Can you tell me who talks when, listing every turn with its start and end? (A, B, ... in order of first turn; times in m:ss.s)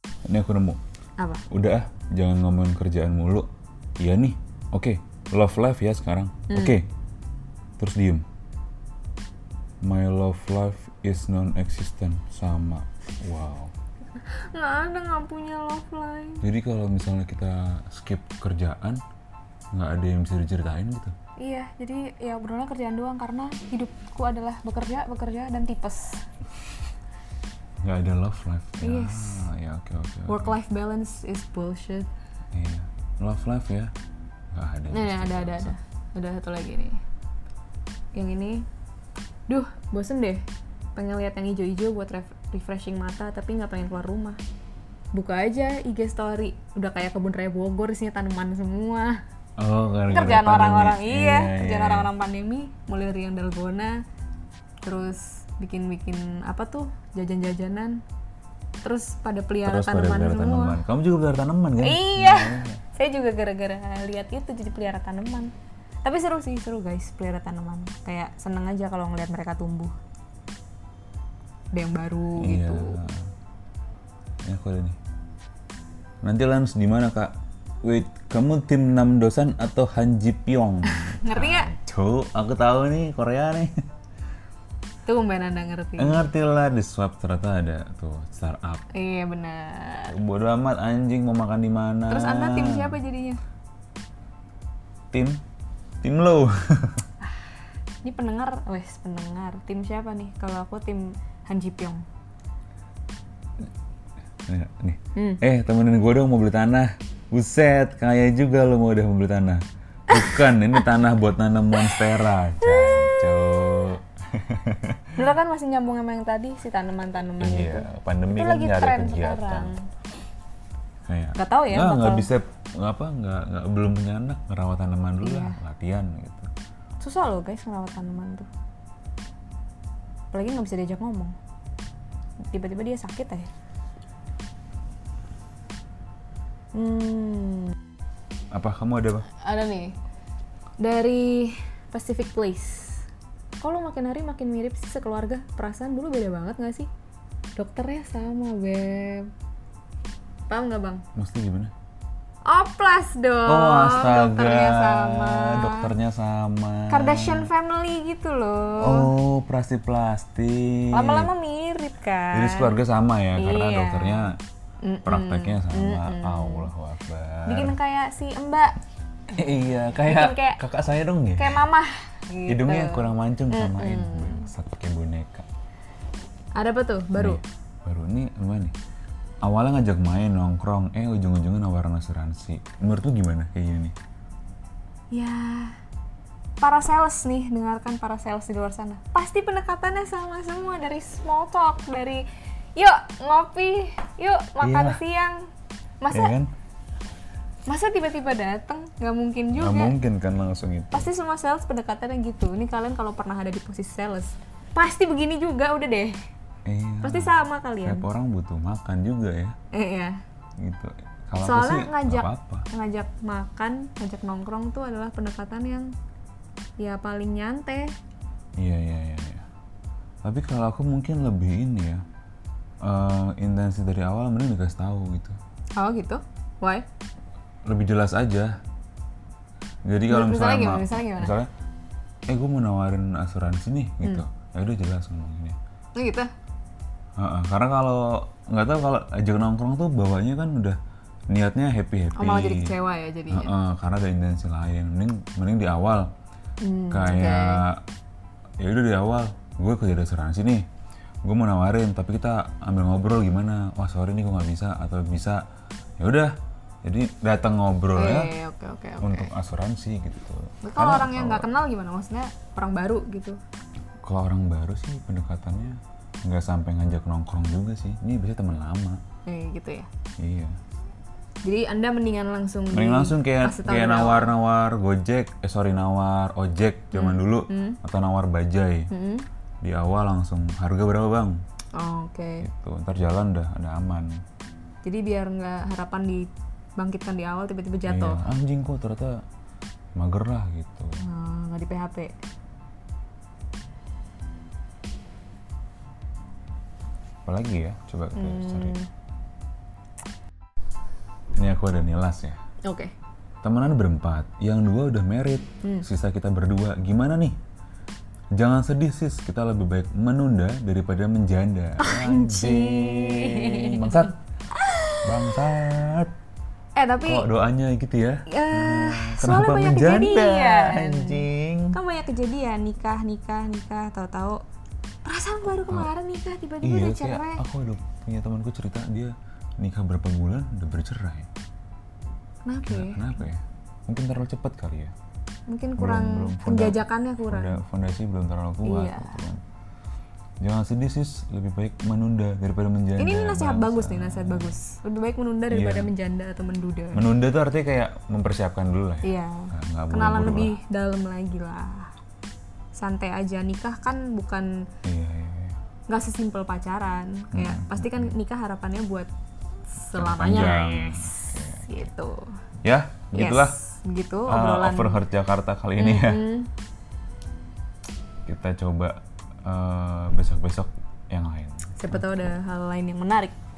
0:00.2-0:00.8 A
0:01.5-0:06.9 A
0:06.5-0:06.8 B
0:07.8-0:08.2 A
0:09.8-0:13.7 A
0:14.2-0:16.4 B
0:16.4-0:19.0 A
0:19.7-0:21.1 A
0:21.4-0:26.2 B
0:27.8-0:30.6 A
0:28.8-0:29.4 B
0:30.3-0:32.1 B
0:32.5-0:33.9 A
0:34.5-0:35.7 A
0:34.9-0:37.0 B
0:38.1-0:38.6 B
0:39.5-0:40.4 B
0:40.9-0:44.4 B
0:45.1-0:49.2 B
0:49.6-0:52.1 A
0:50.1-0:54.0 B
0:54.8-0:58.0 B
0:58.8-1:00.8 B
0:59.6-1:02.8 A
1:01.8-1:05.5 B
1:06.0-1:09.9 B
1:11.7-1:13.0 B
1:12.4-1:13.2 A
1:14.4-1:15.0 A
1:16.2-1:23.8 A
1:20.8-1:21.7 B
1:25.0-1:26.2 B
1:26.0-1:28.8 A
1:28.9-1:30.1 B
1:30.1-1:33.0 A
1:32.1-1:33.4 B
1:35.1-1:35.4 A
1:36.0-1:37.0 A
1:38.0-1:42.0 B
1:44.5-1:55.2 A
1:45.1-1:45.4 B
1:50.1-1:50.8 B
1:51.8-1:53.2 B
1:55.2-1:59.8 B
1:57.4-1:59.7 A
2:01.1-2:06.5 A
2:01.4-2:02.3 B
2:05.2-2:05.6 B
2:07.0-2:08.5 B
2:10.3-2:11.3 B
2:12.5-2:13.5 B
2:16.7-2:17.7 B
2:18.5-2:19.3 A
2:19.4-2:19.9 B
2:20.8-2:23.0 B
2:23.6-2:26.9 B
2:27.6-2:29.3 B
2:30.5-2:31.0 B
2:31.2-2:31.7 A
2:32.5-2:35.9 B
2:33.4-2:37.5 A
2:36.9-2:39.1 B
2:38.8-2:41.3 A
2:40.9-2:42.8 B
2:42.3-2:44.4 A
2:43.4-2:46.7 B
2:45.0-2:47.7 A
2:47.5-2:48.8 B
2:49.3-2:51.6 A
2:50.0-2:50.6 B
2:51.4-2:54.5 B
2:52.5-2:55.4 A
2:56.5-2:57.4 B
2:57.1-2:58.7 A
2:59.4-3:03.9 A
3:05.1-3:05.8 B
3:06.6-3:12.2 B
3:12.8-3:15.5 B
3:14.6-3:15.0 A
3:16.0-3:16.3 B
3:16.1-3:16.5 A
3:17.7-3:19.9 B
3:19.5-3:21.1 A
3:20.9-3:26.2 B
3:26.6-3:29.6 A
3:27.0-3:28.0 B
3:29.7-3:30.1 B
3:30.6-3:32.7 A
3:31.4-3:35.9 B
3:36.8-3:37.9 B
3:38.6-3:39.4 A
3:40.2-3:42.0 A
3:42.8-3:45.4 A
3:45.8-3:46.8 B
3:47.6-3:48.5 A
3:49.9-3:51.5 A
3:50.1-3:51.4 B
3:52.3-3:55.6 A
3:56.0-3:56.3 B
3:57.2-4:00.8 A
4:01.3-4:02.7 A
4:02.2-4:03.5 B
4:03.3-4:06.1 A
4:06.6-4:07.6 B
4:06.9-4:07.8 A
4:08.6-4:10.6 A
4:11.2-4:15.4 A
4:16.0-4:18.3 A
4:17.9-4:19.3 B
4:19.0-4:21.5 A
4:20.6-4:23.4 B
4:24.0-4:29.0 A
4:29.2-4:29.9 B
4:30.2-4:30.6 A
4:31.4-4:34.4 B
4:32.7-4:38.9 A
4:36.9-4:37.8 B
4:38.9-4:39.2 B
4:39.6-4:41.4 A
4:41.8-4:42.4 B
4:42.4-4:44.2 A
4:44.8-4:48.2 B
4:47.8-4:49.2 A
4:50.0-4:51.0 A
4:51.0-4:52.1 B
4:57.2-4:58.8 A
4:58.1-4:58.9 B
5:01.4-5:02.4 A
5:02.6-5:02.9 B
5:03.4-5:07.4 A
5:08.3-5:14.2 A
5:11.8-5:15.3 B
5:15.0-5:16.1 A
5:16.7-5:17.3 B
5:17.0-5:21.8 A
5:18.3-5:24.4 B
5:25.0-5:27.4 B
5:26.6-5:31.3 A
5:32.4-5:33.1 B
5:32.6-5:34.9 A
5:35.5-5:37.6 B
5:35.8-5:39.4 A
5:38.6-5:39.2 B
5:40.4-5:44.6 A
5:43.0-5:47.1 B
5:45.5-5:45.9 A
5:46.9-5:50.6 A
5:49.0-5:51.9 B
5:52.8-5:54.5 B
5:54.8-5:55.6 A
5:55.9-5:59.1 B
5:57.3-5:58.2 A
5:59.8-6:02.3 B
5:59.9-6:01.9 A
6:02.6-6:03.6 A
6:03.1-6:05.0 B
6:04.3-6:06.2 A
6:05.8-6:06.5 B
6:08.2-6:12.0 A
6:11.8-6:13.3 B